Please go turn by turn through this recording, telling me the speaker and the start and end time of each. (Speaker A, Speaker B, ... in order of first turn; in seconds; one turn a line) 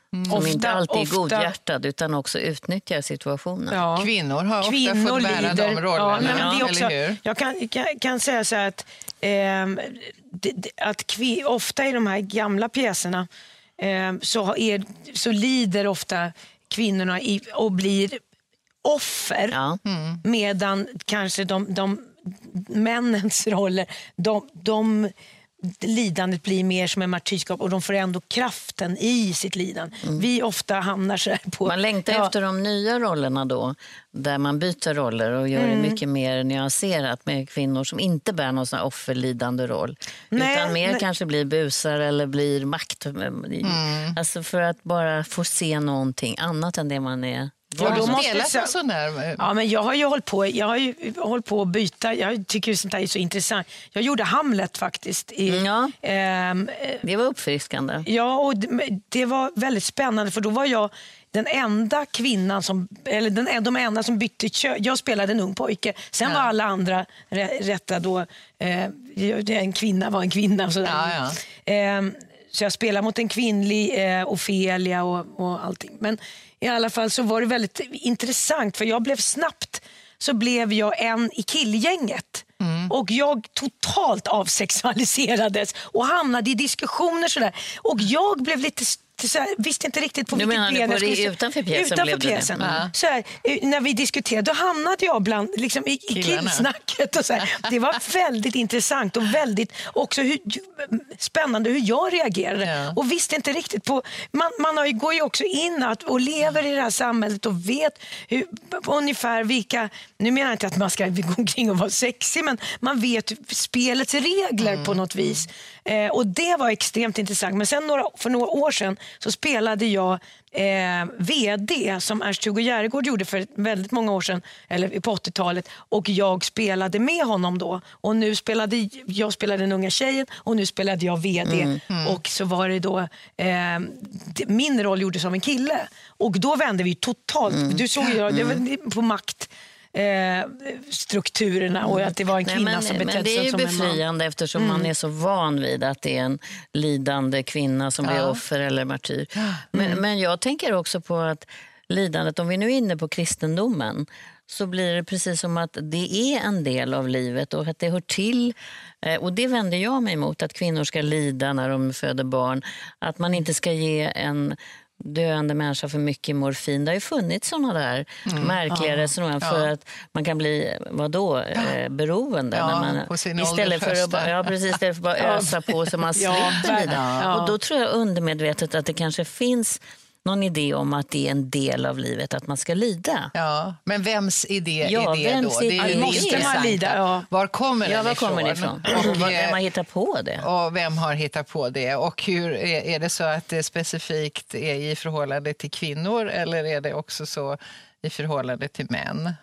Speaker A: 0.1-0.5
Speaker B: 0.3-1.5
Speaker C: 0.3-3.8
Speaker B: 3.7-4.1
Speaker A: 4.0-7.2
Speaker B: 4.6-13.3
Speaker C: 6.2-6.7
Speaker B: 13.8-18.2
Speaker B: 18.8-19.6
Speaker C: 19.5-19.8
Speaker A: 19.9-20.2
Speaker B: 20.2-25.1
Speaker B: 25.6-32.3
Speaker C: 31.6-48.3
Speaker B: 35.5-36.0
Speaker B: 40.3-41.0
Speaker A: 43.6-44.2
Speaker B: 47.8-48.7
Speaker A: 47.8-49.4
Speaker B: 49.4-57.0
Speaker C: 55.5-55.9
Speaker C: 57.0-58.1
Speaker B: 58.0-144.0
Speaker A: 70.8-71.4
Speaker A: 82.6-82.9
Speaker C: 90.3-92.6
Speaker A: 92.6-92.9
Speaker A: 96.1-96.7
Speaker A: 102.6-103.0
Speaker A: 114.6-115.4
Speaker C: 131.4-131.8
Speaker A: 131.9-132.2
Speaker C: 137.5-138.6
Speaker C: 141.9-183.3
Speaker B: 144.6-144.9
Speaker A: 148.0-148.4
Speaker A: 149.4-149.6
Speaker B: 149.7-150.0
Speaker A: 168.2-168.6
Speaker B: 168.7-169.1
Speaker A: 169.4-169.7
Speaker A: 172.5-174.8
Speaker B: 175.2-177.5
Speaker A: 176.8-177.3
Speaker A: 183.3-189.6
Speaker C: 184.8-186.9
Speaker B: 185.8-187.2
Speaker C: 187.8-190.5
Speaker A: 190.4-199.3